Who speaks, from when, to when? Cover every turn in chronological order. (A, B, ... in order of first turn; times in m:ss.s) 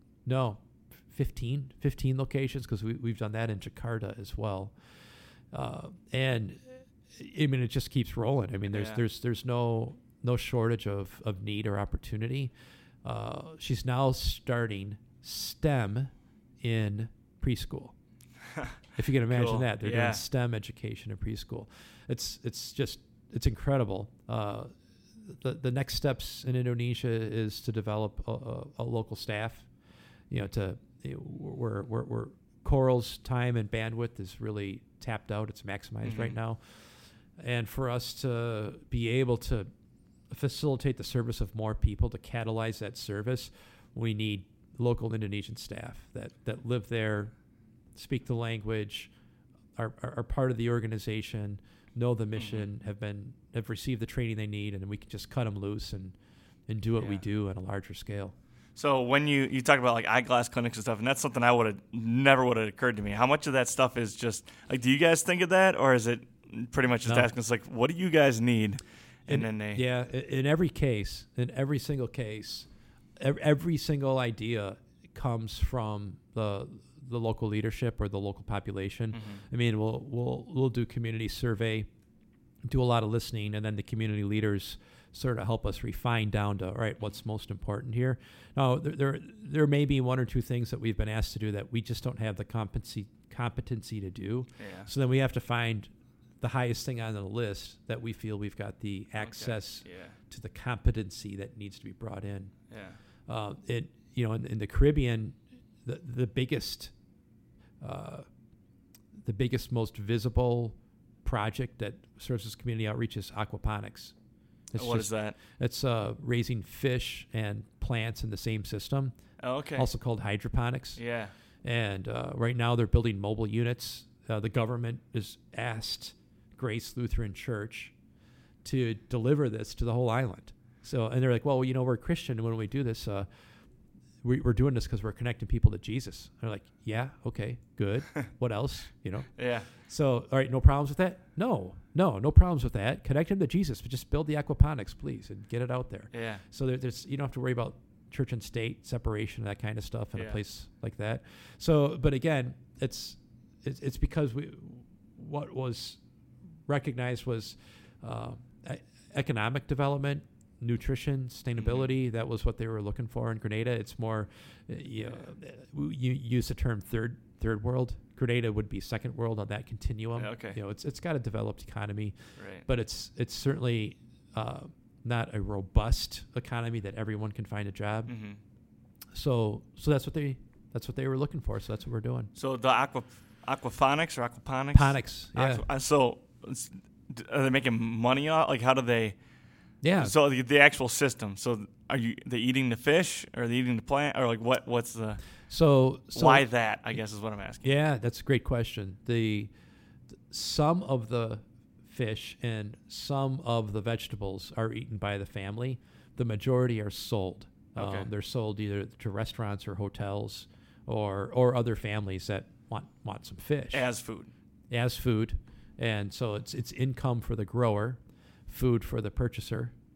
0:00.2-0:04.8 A
0:05.5-0:12.5 A
0:08.7-0:09.0 B
0:13.0-0:18.0 A
0:19.0-0:29.7 A
0:19.3-0:20.2 B
0:30.3-0:36.8 A
0:36.0-0:36.4 B
0:37.4-0:39.7 A
0:40.3-0:47.3 A
0:48.0-0:49.1 A
0:49.8-0:56.2 A
0:52.4-0:52.7 B
0:56.7-0:58.3 A
0:58.8-1:09.8 B
1:07.0-1:07.3 A
1:09.3-1:21.9 A
1:19.1-1:19.4 B
1:22.7-1:42.5 A
1:34.6-1:34.9 B
1:39.2-1:40.2 B
1:42.7-1:43.0 B
1:43.3-1:46.9 A
1:47.8-1:48.3 A
1:49.2-1:54.2 A
1:54.7-1:59.1 A
1:54.8-1:55.4 B
1:59.4-1:59.9 B
1:59.8-2:01.0 A
2:01.0-2:01.3 B
2:01.6-2:07.9 A
2:08.6-2:13.3 A
2:14.2-2:36.0 A
2:19.4-2:19.7 B
2:26.1-2:26.4 B
2:36.7-2:58.1 A
2:41.6-2:41.9 B
2:50.2-2:50.6 B
2:52.4-2:52.6 B
2:58.1-2:58.4 B
2:59.1-3:02.3 A
3:02.4-3:09.2 B
3:04.7-3:05.6 A
3:09.8-3:10.1 A
3:10.0-3:15.2 B
3:15.5-3:16.5 A
3:16.2-3:17.7 B
3:17.6-3:19.5 A
3:20.3-3:33.9 A
3:27.8-3:28.1 B
3:33.7-3:34.3 B
3:34.7-3:39.7 A